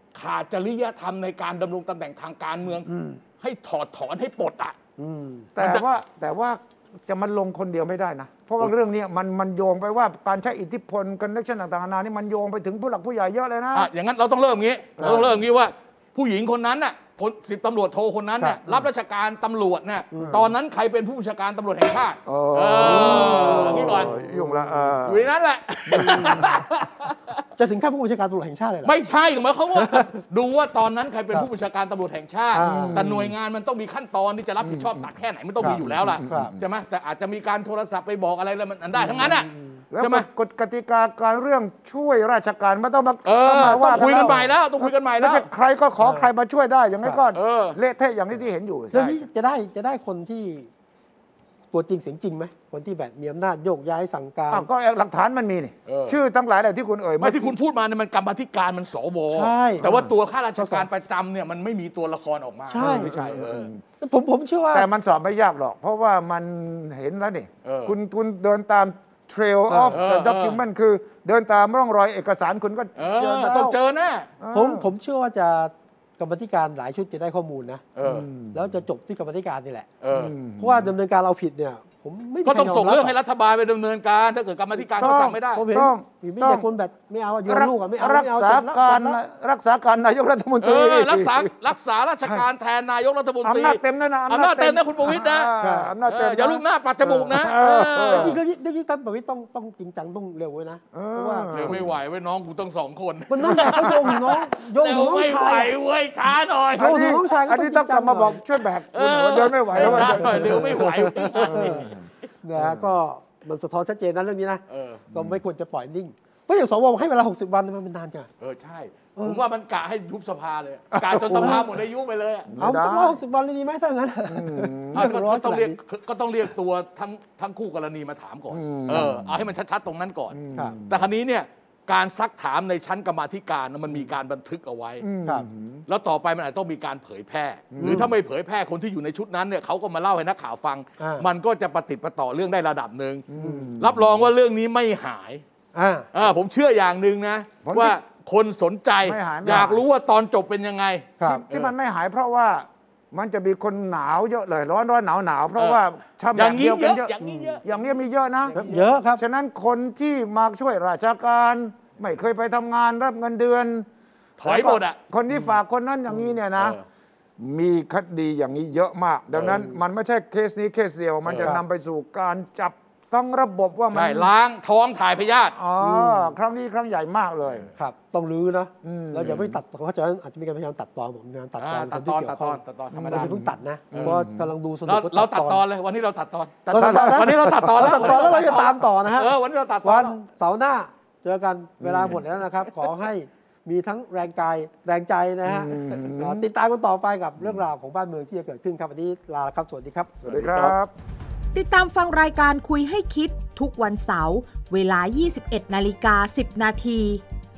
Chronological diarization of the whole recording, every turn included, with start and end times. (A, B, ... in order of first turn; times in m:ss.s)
0:00.1-0:02.9 A
0:02.8-0:03.2 B
0:03.4-0:04.8 A
0:05.0-0:05.5 B
0:05.6-0:13.9 C
0:05.6-0:05.9 A
0:13.7-0:24.1 A
0:15.0-0:15.3 B
0:20.1-0:20.4 B
0:20.2-0:20.5 C
0:22.3-0:25.3 C
0:22.8-0:24.9 B
0:25.0-0:27.4 A
0:25.9-0:26.5 C
0:25.9-0:26.6 B
0:27.6-0:29.0 B
0:28.8-0:39.5 A
0:29.8-0:30.1 B
0:32.6-0:33.0 B
0:32.7-0:33.3 C
0:34.6-0:35.0 C
0:35.6-0:36.5 B
0:35.6-0:36.6 C
0:39.0-0:39.8 B
0:39.9-0:49.0 C
0:40.0-0:40.3 A
0:43.2-0:45.5 A
0:43.4-0:44.5 B
0:46.0-0:46.3 B
0:47.3-0:47.8 A
0:48.9-0:50.7 B
0:48.9-0:49.2 A
0:51.7-0:54.7 B
0:54.5-0:57.6 C
0:55.9-0:56.2 A
0:57.2-1:03.7 A
0:59.3-1:00.0 B
0:59.8-1:00.1 C
1:00.6-1:00.9 B
1:02.7-1:03.2 B
1:02.8-1:03.8 C
1:04.0-1:04.9 B
1:04.7-1:13.8 C
1:07.6-1:08.0 A
1:09.7-1:10.0 B
1:09.9-1:10.6 A
1:13.0-1:14.3 A
1:14.4-1:14.9 C
1:14.5-1:17.8 B
1:18.0-1:18.3 A
1:18.0-1:18.6 C
1:18.5-1:19.9 B
1:20.0-1:20.4 A
1:20.1-1:20.9 C
1:20.6-1:23.2 B
1:22.4-1:25.6 A
1:24.8-1:29.2 B
1:25.0-1:26.7 C
1:27.5-1:31.5 C
1:30.6-1:35.5 A
1:32.2-1:32.5 B
1:33.4-1:36.6 C
1:35.6-1:35.9 B
1:36.0-1:38.4 A
1:37.0-1:37.4 B
1:37.3-1:38.4 C
1:38.1-1:41.8 B
1:40.9-1:41.9 C
1:41.5-1:47.0 A
1:43.3-1:45.7 B
1:43.5-1:44.2 C
1:46.8-1:48.4 B
1:46.8-1:52.0 C
1:48.9-1:51.9 A
1:49.8-1:51.9 B
1:52.4-1:58.3 B
1:52.6-1:52.9 C
1:54.7-1:55.0 A
1:58.4-2:02.5 A
1:59.2-1:59.4 B
2:00.9-2:01.8 C
2:01.4-2:01.6 B
2:02.5-2:03.2 C
2:02.6-2:05.8 B
2:04.3-2:05.1 C
2:04.9-2:15.1 A
2:08.5-2:09.4 C
2:10.3-2:11.0 C
2:15.0-2:15.8 C
2:15.9-2:23.2 A
2:17.7-2:18.1 C
2:17.8-2:18.1 B
2:21.0-2:21.3 B
2:23.3-2:24.2 C
2:23.4-2:23.7 B
2:23.8-2:25.4 A
2:25.7-2:26.1 B
2:26.1-2:31.7 A
2:27.6-2:28.0 C
2:29.0-2:29.8 C
2:31.2-2:38.6 C
2:36.4-2:37.8 A
2:37.2-2:37.6 B
2:38.5-2:38.9 A
2:38.5-2:39.2 B
2:39.2-2:43.9 C
2:44.4-2:45.0 A
2:44.4-2:46.8 C
2:46.6-2:46.8 A
2:47.4-2:54.3 C
2:49.3-2:49.6 A
2:51.3-2:51.5 A
2:53.9-2:55.6 A
2:55.5-2:57.7 C
2:55.8-2:56.4 B
2:57.8-3:05.6 B
2:58.8-2:59.6 C
3:01.6-3:03.4 A
3:02.9-3:04.5 C
3:03.9-3:04.2 A
3:04.9-3:10.2 A
3:06.7-3:09.3 B
3:06.7-3:08.2 C
3:09.8-3:20.3 B
3:11.8-3:12.2 C
3:15.4-3:16.5 C
3:20.2-3:20.9 C
3:21.5-3:27.2 D